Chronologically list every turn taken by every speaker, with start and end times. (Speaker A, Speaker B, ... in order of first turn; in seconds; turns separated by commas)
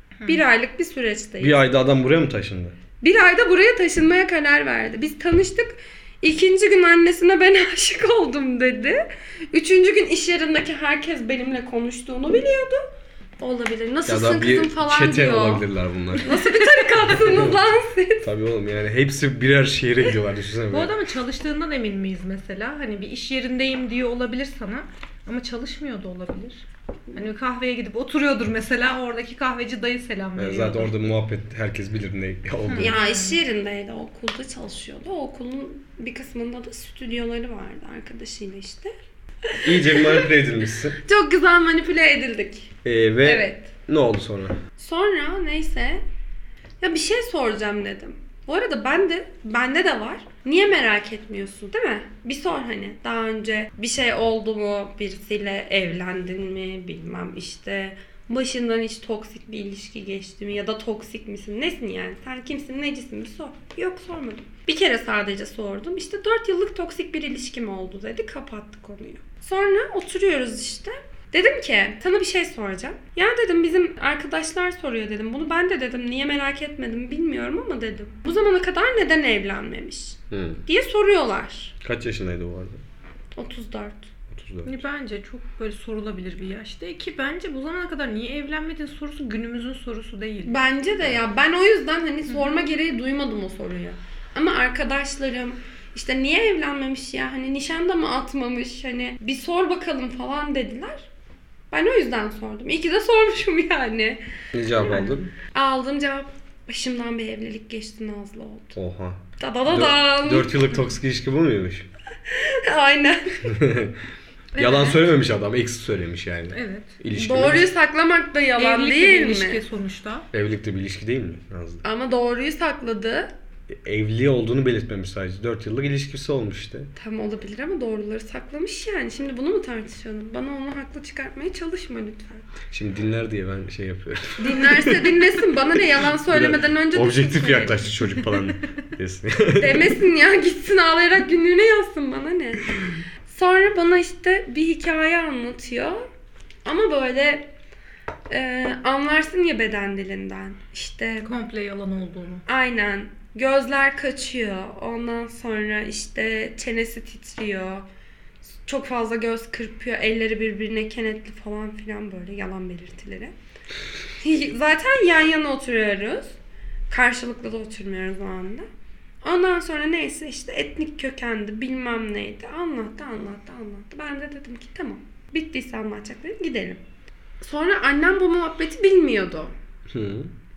Speaker A: 0.3-1.6, Speaker B: 1.4-2.8, Speaker A: 3.0-12.8, Speaker A: 13.4-15.7, Speaker B: 14.1-16.4, Speaker A: 16.2-18.3, Speaker B: 17.2-17.6, Speaker B: 18.2-20.9, Speaker C: 20.7-30.9, Speaker B: 30.4-33.0, Speaker C: 32.7-33.4, Speaker A: 32.8-38.9, Speaker A: 39.5-40.2, Speaker B: 39.6-41.0, Speaker A: 41.0-42.7, Speaker B: 42.8-44.6, Speaker A: 43.2-43.7, Speaker A: 44.8-46.0, Speaker A: 46.8-81.7, Speaker B: 80.3-80.6, Speaker B: 81.8-82.8, Speaker A: 83.4-84.1, Speaker B: 84.3-84.8, Speaker C: 84.6-90.6, Speaker A: 90.5-101.1, Speaker A: 101.7-104.2, Speaker B: 104.5-105.3, Speaker A: 104.8-108.8, Speaker B: 108.7-111.9, Speaker A: 109.4-110.8, Speaker A: 112.3-113.5, Speaker B: 113.5-114.0, Speaker B: 114.5-117.7, Speaker A: 114.6-115.0, Speaker C: 116.5-117.0, Speaker A: 117.1-119.6, Speaker C: 118.6-120.3, Speaker B: 120.3-121.8, Speaker A: 121.8-123.3, Speaker B: 123.7-126.9, Speaker A: 127.0-132.5, Speaker B: 132.7-135.2, Speaker A: 134.4-137.9, Speaker B: 136.2-139.9, Speaker A: 139.6-142.7, Speaker A: 143.3-146.1, Speaker A: 146.7-147.5, Speaker A: 148.3-151.3, Speaker C: 151.2-152.4, Speaker A: 152.5-157.9, Speaker A: 158.7-163.3, Speaker A: 164.2-166.3, Speaker A: 166.9-168.7, Speaker A: 169.2-176.8, Speaker A: 177.4-179.5, Speaker B: 179.9-180.3